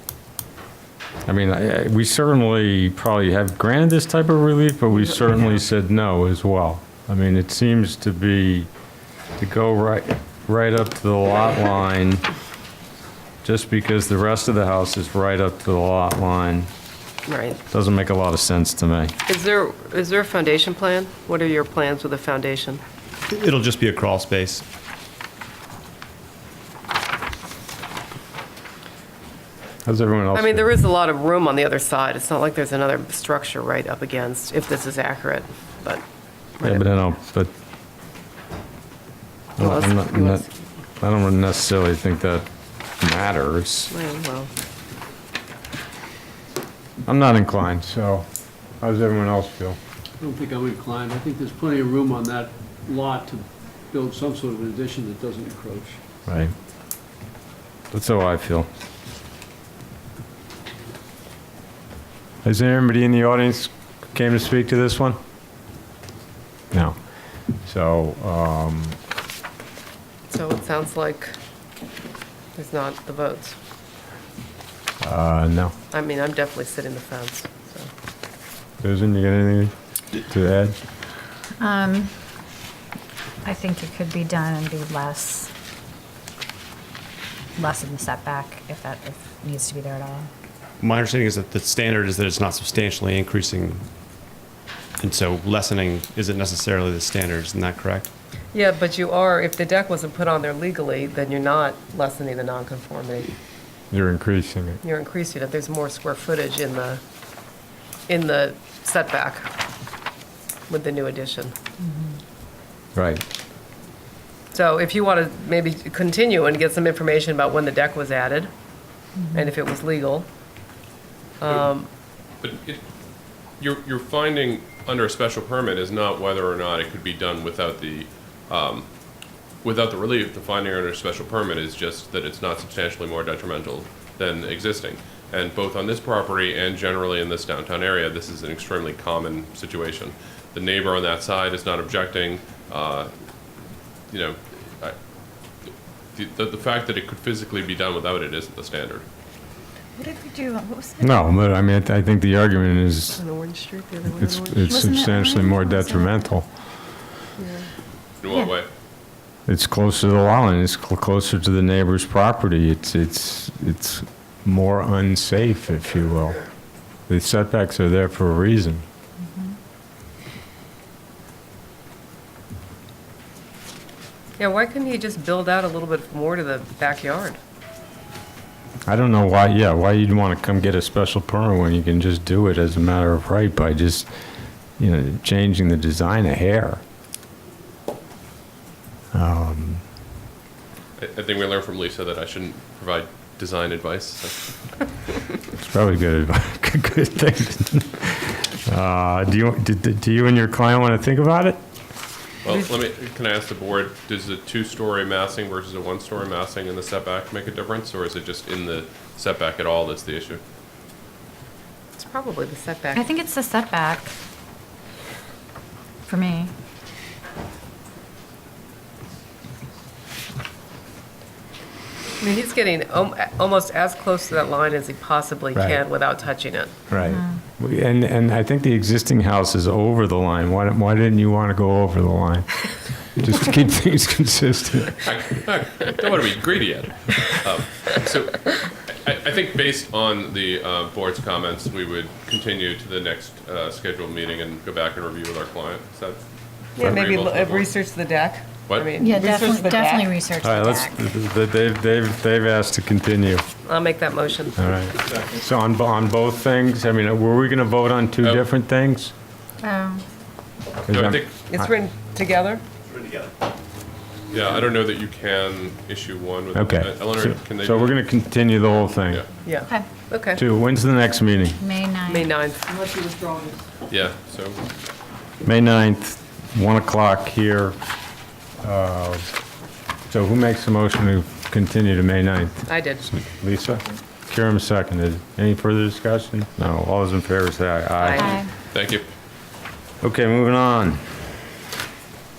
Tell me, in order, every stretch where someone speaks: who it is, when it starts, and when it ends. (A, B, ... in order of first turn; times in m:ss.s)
0:01.2-0:08.7 A
0:09.4-0:12.2 A
0:13.4-0:16.7 A
0:17.3-0:17.6 B
0:17.7-0:19.1 A
0:19.3-0:22.8 B
0:23.3-0:24.6 C
0:29.8-0:30.7 A
0:30.3-0:36.0 B
0:36.6-0:36.8 B
0:36.6-0:37.5 A
0:39.6-0:40.4 A
0:39.6-0:40.4 B
0:41.0-0:42.4 A
0:43.0-0:43.9 A
0:43.9-0:44.5 B
0:47.0-0:48.3 A
0:48.8-0:49.8 A
0:50.2-0:56.0 D
0:56.3-0:56.5 A
0:57.9-0:58.7 A
1:02.4-1:05.2 A
1:07.6-1:09.0 A
1:10.3-1:11.3 B
1:12.5-1:13.6 B
1:15.0-1:15.7 A
1:15.9-1:17.9 B
1:18.8-1:20.8 A
1:21.6-1:22.2 E
1:23.4-1:25.5 E
1:27.6-1:30.3 E
1:30.8-1:33.8 C
1:35.0-1:38.1 C
1:38.5-1:43.3 B
1:43.9-1:44.8 A
1:44.8-1:47.0 B
1:48.1-1:49.4 B
1:50.7-1:51.5 B
1:51.8-1:52.1 E
1:52.9-1:53.2 A
1:54.5-1:58.5 B
1:59.2-1:59.5 E
1:59.3-2:00.3 B
2:01.4-2:01.9 B
2:02.4-2:02.8 F
2:03.5-2:08.9 F
2:09.6-2:23.1 F
2:24.1-2:25.0 F
2:26.1-2:29.0 F
2:30.0-2:31.2 E
2:31.0-2:33.2 A
2:33.2-2:34.9 B
2:34.2-2:36.4 A
2:34.7-2:36.2 E
2:37.4-2:37.7 B
2:38.2-2:38.7 F
2:39.5-2:46.4 A
2:47.1-2:48.8 A
2:54.4-2:57.4 B
2:58.8-3:04.1 A
3:04.8-3:06.8 A
3:09.1-3:09.8 A
3:11.0-3:14.8 F
3:15.6-3:21.6 A
3:22.4-3:30.4 F
3:32.0-3:33.1 B
3:32.9-3:34.1 E
3:36.1-3:36.5 E
3:42.2-3:46.7 B
3:45.5-3:45.8 A
3:46.9-3:55.1 A
3:47.0-3:47.3 E
3:55.0-4:06.2 F
4:06.8-4:10.1 B
4:06.8-4:07.7 F
4:09.0-4:11.0 E
4:10.4-4:13.4 A
4:13.6-4:14.7 B
4:14.6-4:19.1 A
4:19.6-4:20.0 E
4:20.9-4:21.6 A
4:20.9-4:21.3 F
4:21.5-4:22.6 B
4:22.9-4:23.3 C
4:24.3-4:28.0 F
4:26.5-4:29.2 A
4:29.4-4:30.4 B
4:30.3-4:31.6 A
4:31.6-4:32.3 E
4:32.1-4:32.7 B
4:33.9-4:34.6 F
4:35.4-4:37.8 A
4:38.6-4:39.3 A
4:40.1-4:48.4 A
4:42.6-4:43.1 B
4:48.0-4:48.4 B
4:48.1-4:48.5 E
4:48.7-4:49.0 F
4:50.0-4:51.0 A